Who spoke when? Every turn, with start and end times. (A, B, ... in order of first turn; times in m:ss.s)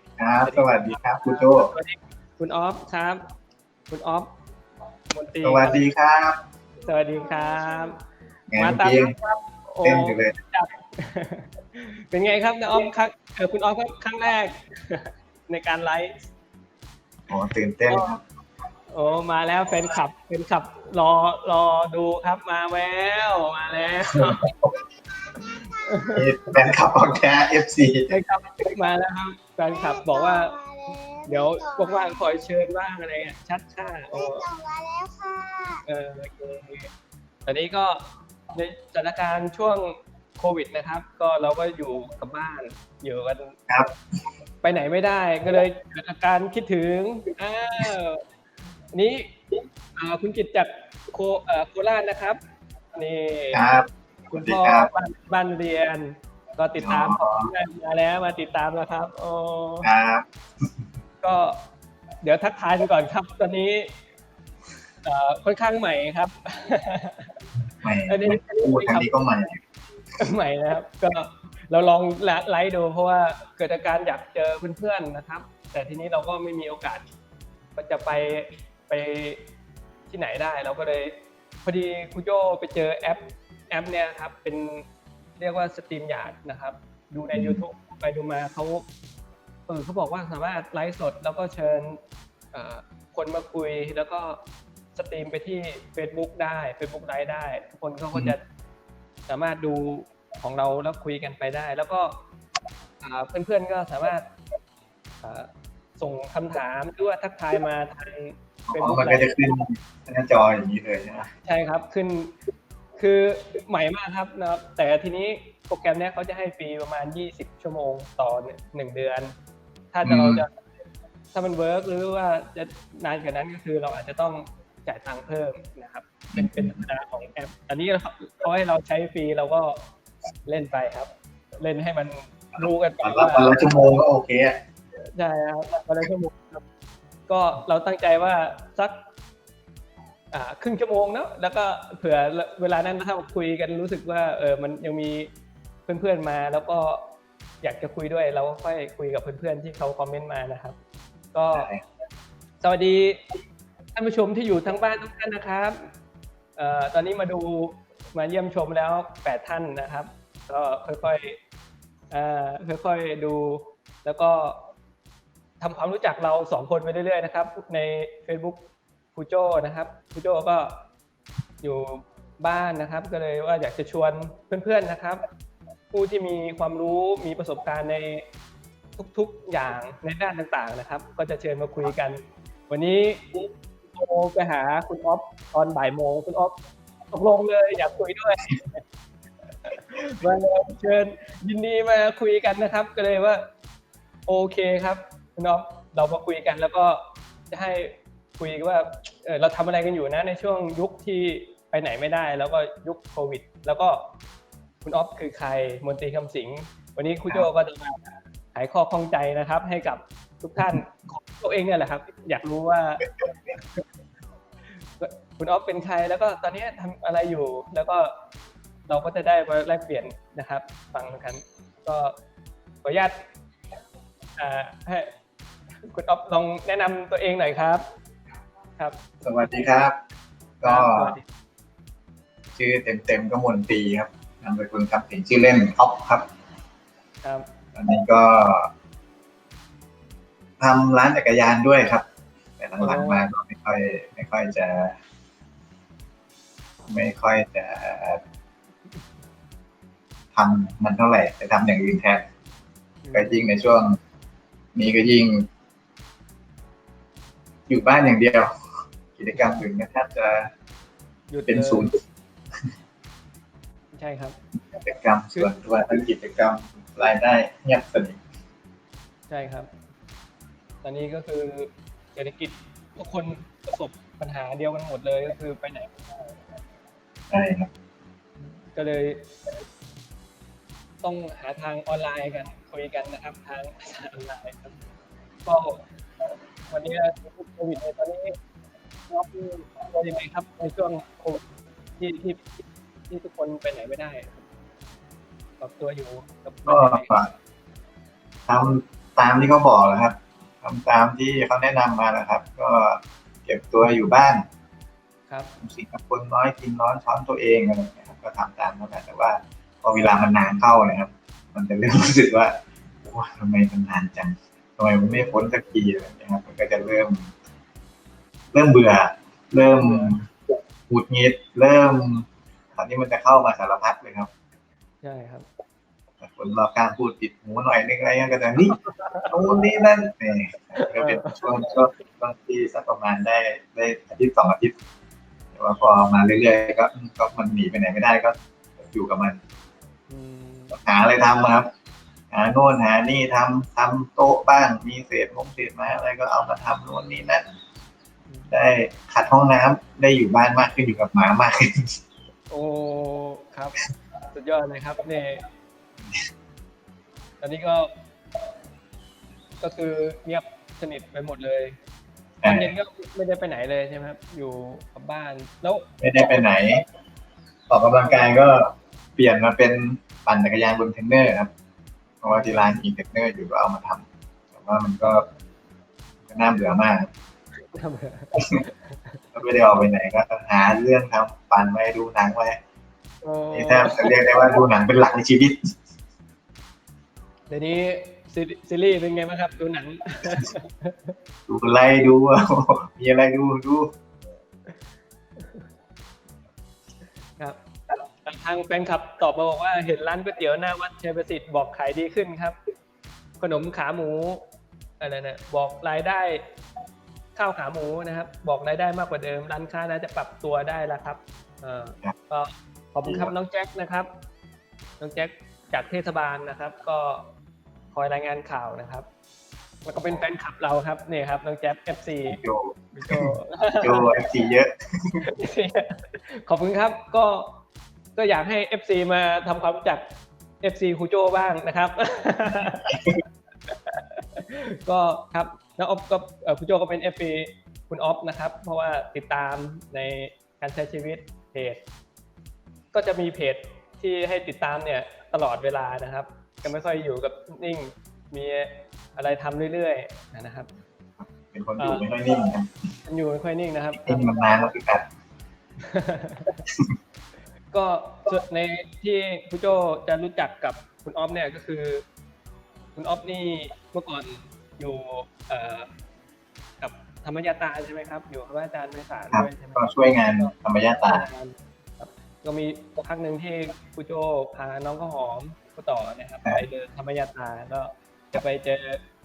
0:00.2-0:01.7 A
0:00.4-0:03.2 B
0:03.9-0:04.3 B
0:05.1-0:05.8 B
0:05.4-0:06.4 A
0:06.8-0:08.0 B
0:08.5-0:09.2 A
0:08.6-0:16.2 B
0:09.8-0:10.4 A
0:17.3-0:18.2 A
0:18.9-0:24.5 B
0:24.1-0:24.7 A
0:25.6-0:26.2 B
0:26.1-0:28.1 A
0:28.1-0:30.6 B
0:30.1-0:31.9 C
0:31.3-0:34.5 B
0:34.3-0:35.8 C
0:35.8-0:36.9 B
0:37.5-0:43.6 B
0:44.6-0:48.2 B
0:48.9-0:49.4 B
0:50.0-0:52.4 B
0:52.9-0:53.6 B
0:53.5-0:54.9 A
0:54.3-0:59.9 B
0:56.8-0:57.5 A
0:59.8-1:00.2 A
1:01.2-1:01.6 B
1:02.2-1:03.9 B
1:05.0-1:07.4 B
1:07.8-1:09.6 A
1:08.1-1:09.1 B
1:10.2-1:17.0 B
1:17.8-1:19.4 B
1:20.1-1:21.1 B
1:21.6-1:24.9 B
1:25.4-1:28.8 B
1:27.3-1:27.6 A
1:29.7-1:32.0 B
1:32.5-1:34.4 B
1:35.0-1:38.4 B
1:39.3-1:42.2 B
1:43.0-1:44.2 B
1:45.2-1:49.3 B
1:48.7-1:51.3 A
1:51.4-1:52.4 B
1:53.0-1:59.3 B
1:59.9-2:00.5 B
2:00.0-2:00.4 A
2:01.3-2:09.8 B
2:06.3-2:06.8 A
2:10.5-2:13.7 B
2:12.6-2:14.6 A
2:15.2-2:16.6 B
2:17.3-2:19.0 B
2:20.3-2:25.3 B
2:25.9-2:27.1 B
2:27.6-2:30.8 B
2:31.3-2:31.7 B
2:31.5-2:31.8 A
2:32.6-2:33.2 B
2:34.0-2:35.9 B
2:36.6-2:41.4 B
2:42.1-2:44.6 B
2:45.6-2:50.8 B
2:51.6-2:55.2 B
2:55.9-2:58.3 B
2:59.0-3:06.6 B
3:07.1-3:08.8 B
3:09.6-3:13.5 B
3:14.3-3:24.1 B
3:24.8-3:33.8 B
3:33.0-3:33.6 A
3:35.0-3:38.1 B
3:38.9-3:42.2 B
3:42.8-3:43.2 B
3:44.4-3:45.1 B
3:45.8-3:47.8 B
3:49.2-3:50.0 A
3:50.6-3:51.2 A
3:50.6-3:51.2 B
3:52.6-3:56.3 A
3:57.8-3:58.7 A
4:00.6-4:02.0 A
4:02.6-4:05.0 A
4:02.8-4:03.3 B
4:06.9-4:08.2 A
4:10.3-4:12.2 A
4:13.0-4:13.5 B
4:13.1-4:14.0 A
4:14.8-4:15.5 A
4:17.7-4:18.5 A
4:19.2-4:20.5 A
4:19.4-4:19.7 B
4:21.3-4:21.9 B
4:21.5-4:22.0 A
4:23.9-4:24.4 B
4:24.7-4:28.2 A
4:29.3-4:29.7 B
4:30.8-4:36.3 B
4:37.3-4:37.7 A
4:38.7-4:39.3 B
4:41.0-4:44.8 B
4:45.5-4:45.8 B
4:46.7-4:48.4 B
4:49.1-4:51.4 B
4:52.0-4:54.4 B
4:55.6-4:57.3 B
4:56.7-4:57.3 A
4:58.5-5:04.4 A
5:05.6-5:17.3 A
5:15.1-5:15.5 B
5:18.5-5:20.3 A
5:19.8-5:20.1 B
5:20.9-5:24.3 A
5:25.0-5:25.5 B
5:26.2-5:28.8 A
5:28.7-5:29.3 B
5:29.3-5:34.7 A
5:30.8-5:31.5 B
5:35.6-5:39.4 A
5:40.1-5:40.8 B
5:40.7-5:41.7 A
5:42.3-5:47.4 A
5:48.3-5:48.5 B
5:48.5-5:52.0 A
5:52.5-5:53.8 B
5:54.3-5:55.4 B
5:57.4-5:57.9 B
5:59.6-6:01.8 B
6:02.4-6:02.7 A
6:02.4-6:05.8 B
6:06.0-6:06.8 A
6:07.7-6:11.5 A
6:08.0-6:08.4 B
6:12.2-6:15.2 A
6:12.3-6:12.8 B
6:16.3-6:17.1 A
6:17.7-6:19.2 B
6:19.3-6:22.6 A
6:23.2-6:24.1 B
6:23.5-6:25.7 A
6:27.5-6:31.2 B
6:31.5-6:33.9 A
6:35.4-6:35.7 B
6:37.4-6:42.6 B
6:43.4-6:44.4 B
6:45.0-6:46.4 B
6:47.4-6:54.1 B
6:53.0-6:53.3 A
6:55.0-6:57.3 B
6:57.9-6:59.1 B
6:59.9-7:02.4 B
7:02.3-7:05.2 A
7:02.9-7:04.1 B
7:05.3-7:07.6 B
7:08.2-7:10.0 B
7:10.6-7:12.9 B
7:13.7-7:21.8 B
7:22.9-7:30.7 B
7:31.3-7:32.7 A
7:31.8-7:32.0 B
7:33.1-7:34.5 B
7:34.0-7:35.0 A
7:35.8-7:36.6 B
7:37.7-7:42.0 B
7:43.0-7:45.9 B
7:46.8-7:50.5 B
7:49.3-7:51.3 A
7:51.0-7:59.0 B